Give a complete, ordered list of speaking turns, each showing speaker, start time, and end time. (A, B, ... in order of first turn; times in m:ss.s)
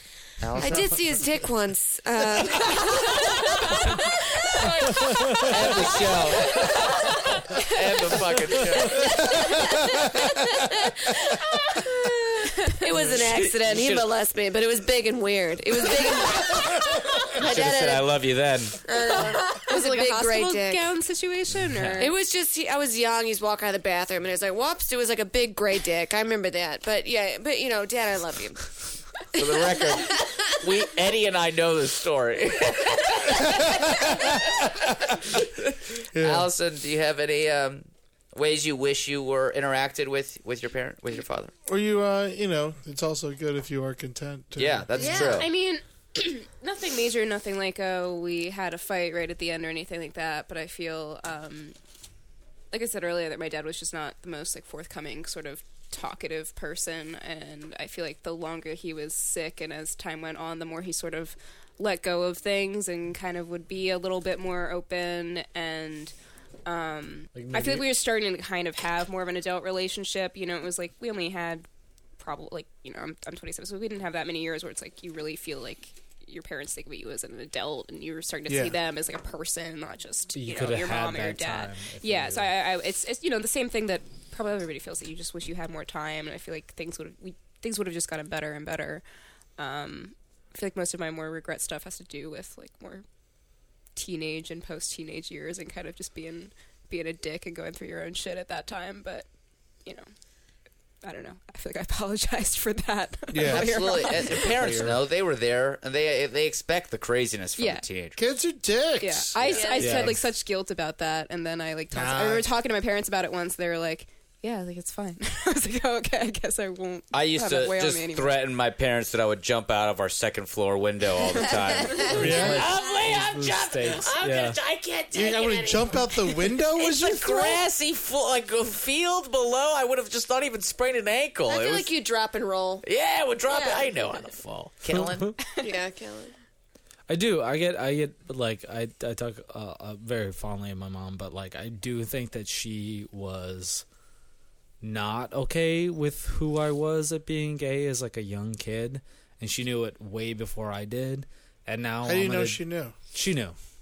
0:00.4-0:01.0 A
0:00.6-0:01.0 B
0:00.6-0:07.6 C
0:05.4-0:06.7 A
0:07.6-0:09.1 A
0:08.8-0:10.3 B
0:08.9-0:18.1 C
0:13.1-0:14.1 A
0:17.3-0:18.8 A
0:18.8-0:20.9 C
0:19.1-0:22.1 D
0:21.7-0:22.1 E
0:22.0-0:28.7 C
0:29.3-0:41.5 A
0:29.4-0:30.2 C
0:33.4-0:33.9 B
0:36.1-0:36.5 B
0:41.7-0:45.4 B
0:44.6-0:45.5 A
0:45.0-0:45.4 C
0:45.3-0:51.8 D
0:52.7-1:06.1 D
1:06.7-1:11.7 D
1:07.3-1:07.9 E
1:12.2-1:29.0 D
1:18.5-1:18.8 B
1:20.3-1:22.5 E
1:29.6-1:33.0 D
1:34.0-1:39.3 D
1:41.0-1:44.5 D
1:43.3-1:43.8 B
1:43.4-1:48.2 A
1:44.1-1:45.0 E
1:47.6-1:47.8 D
1:48.2-1:49.3 B
1:49.0-1:58.3 D
1:49.4-1:50.1 C
1:49.8-1:50.2 E
1:51.9-1:52.5 B
1:57.1-2:05.8 A
2:02.0-2:04.6 E
2:02.1-2:02.7 B
2:05.1-2:07.6 B
2:05.2-2:06.0 C
2:06.8-2:11.9 A
2:11.5-2:12.8 C
2:12.8-2:15.3 A
2:13.5-2:13.9 C
2:15.0-2:15.3 E
2:15.6-2:16.3 C
2:17.1-2:23.8 E
2:24.8-2:32.6 E
2:32.0-2:33.0 B
2:33.1-2:33.6 E